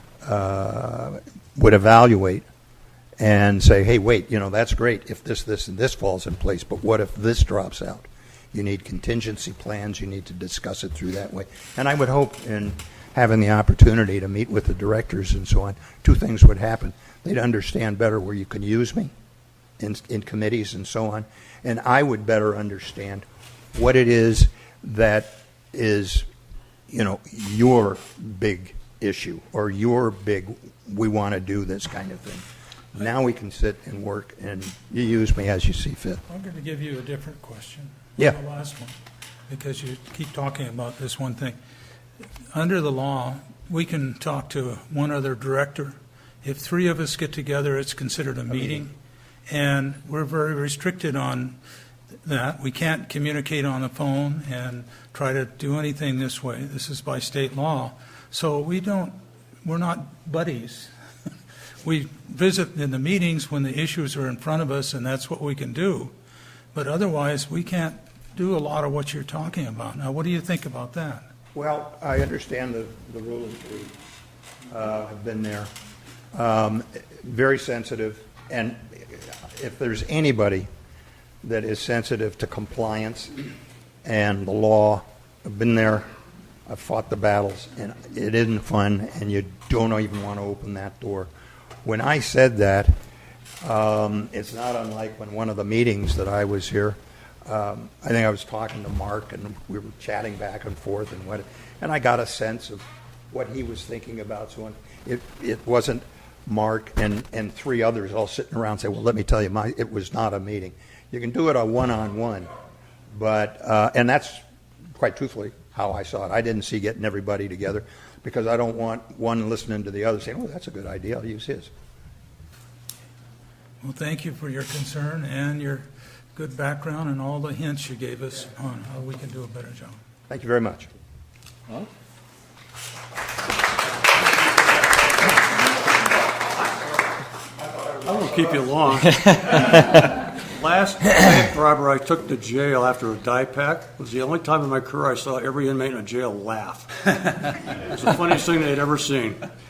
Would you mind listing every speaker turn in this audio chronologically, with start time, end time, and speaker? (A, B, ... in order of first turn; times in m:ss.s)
0:00.2-0:02.4 A
0:03.2-0:19.1 A
0:19.8-0:26.2 A
0:26.9-0:36.2 A
0:36.3-0:38.9 B
0:39.5-0:41.6 B
0:42.5-0:48.9 B
0:49.5-0:51.6 B
0:52.2-1:00.9 B
1:01.8-1:06.1 B
1:06.7-1:11.2 B
1:11.5-1:13.9 A
1:14.7-1:15.7 A
1:16.3-1:20.7 A
1:21.4-1:23.3 A
1:24.0-1:26.1 A
1:26.7-1:31.3 A
1:31.8-1:32.9 A
1:33.6-1:52.5 A
1:53.1-1:54.4 A
1:55.0-2:01.7 A
2:03.8-2:10.0 B
2:10.3-2:10.9 A
2:17.8-2:29.5 C